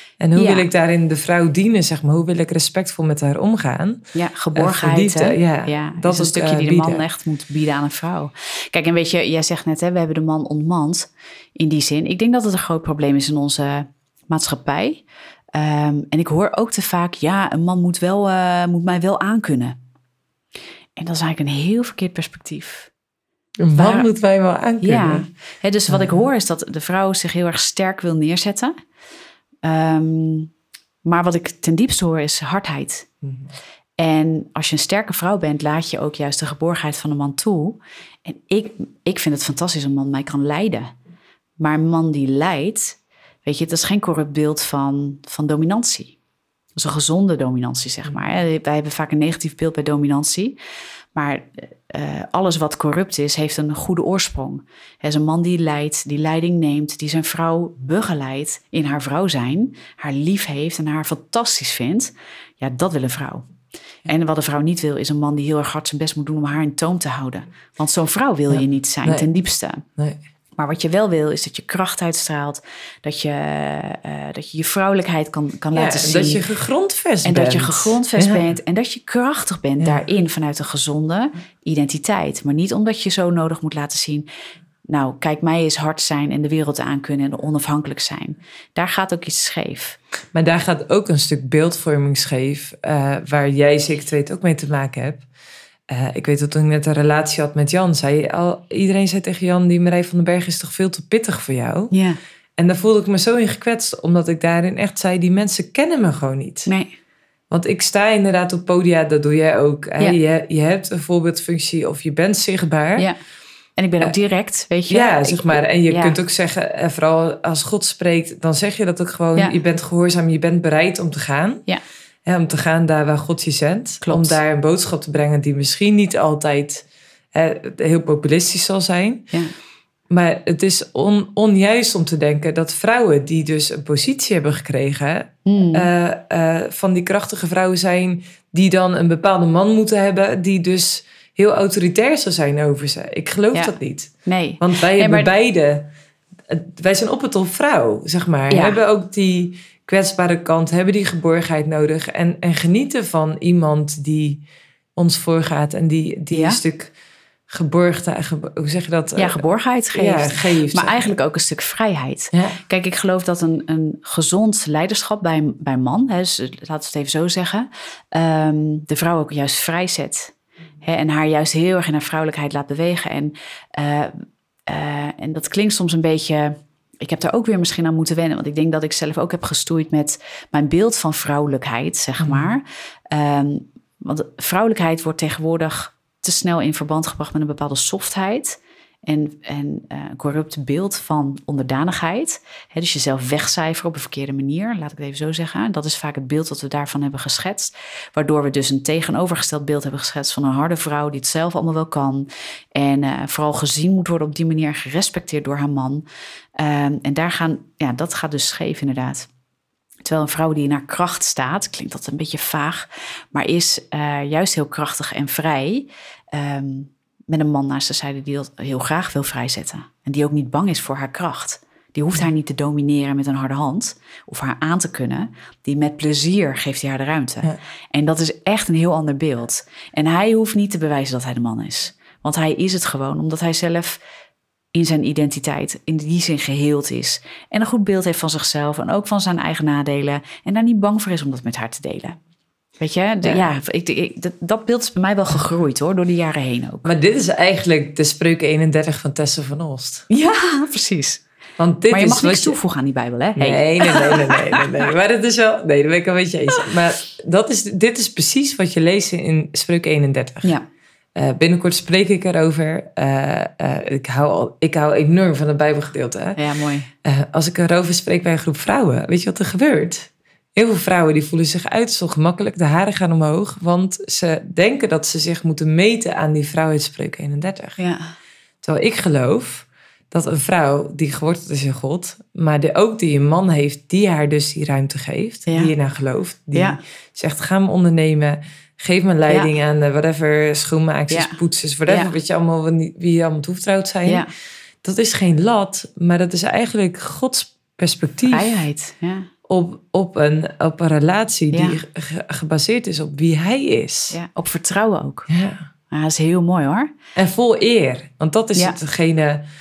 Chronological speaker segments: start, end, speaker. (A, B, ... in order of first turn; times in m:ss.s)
0:00.2-0:07.0 A
0:00.4-0:00.7 B
0:04.1-0:19.8 B
0:21.0-0:22.9 B
0:23.6-0:25.3 A
0:23.7-0:24.1 B
0:24.8-0:28.7 B
0:25.9-0:26.2 A
0:29.6-0:30.5 B
0:31.0-0:33.1 B
0:34.0-0:40.9 B
0:41.6-0:46.2 B
0:46.8-0:50.6 B
0:51.1-1:03.5 B
1:04.1-1:09.8 B
1:08.5-1:09.3 A
1:10.6-1:16.4 B
1:15.7-1:18.5 A
1:17.2-1:24.3 B
1:24.9-1:30.0 B
1:30.3-1:35.2 A
1:35.9-1:41.9 A
1:41.9-1:42.2 B
1:42.6-1:46.7 A
1:46.7-1:47.0 B
1:47.5-1:53.1 A
1:53.8-1:56.2 B
1:54.9-2:01.6 A
2:02.3-2:09.3 A
2:04.0-2:04.4 B
2:10.1-2:25.9 A
2:15.4-2:15.9 B
2:23.5-2:25.3 B
2:26.5-2:34.4 A
2:28.5-2:28.8 B
2:35.0-2:36.9 A
2:36.3-2:36.6 B
2:37.5-2:41.1 A
2:39.2-3:26.0 B
2:42.3-2:42.6 A
3:02.2-3:02.5 A
3:26.6-3:29.3 B
3:30.0-3:54.0 B
3:54.7-4:02.2 B
4:02.8-4:06.9 B
4:06.8-4:10.1 A
4:10.1-4:11.2 B
4:11.6-4:12.6 A
4:11.9-4:14.8 B
4:13.4-4:20.6 A
4:21.2-4:26.4 A
4:26.4-4:26.9 B
4:27.0-4:37.8 A
4:37.8-4:38.1 B
4:38.6-4:54.3 A
4:45.5-4:45.7 B
4:46.5-4:46.8 B
4:51.1-4:51.4 B
4:51.9-4:52.1 B
4:54.8-4:58.6 A
4:58.3-4:59.3 B
4:59.5-5:04.1 A
5:01.5-5:01.8 B
5:04.1-5:05.3 B
5:05.3-5:05.7 A
5:05.9-5:06.9 B
5:07.2-5:09.4 A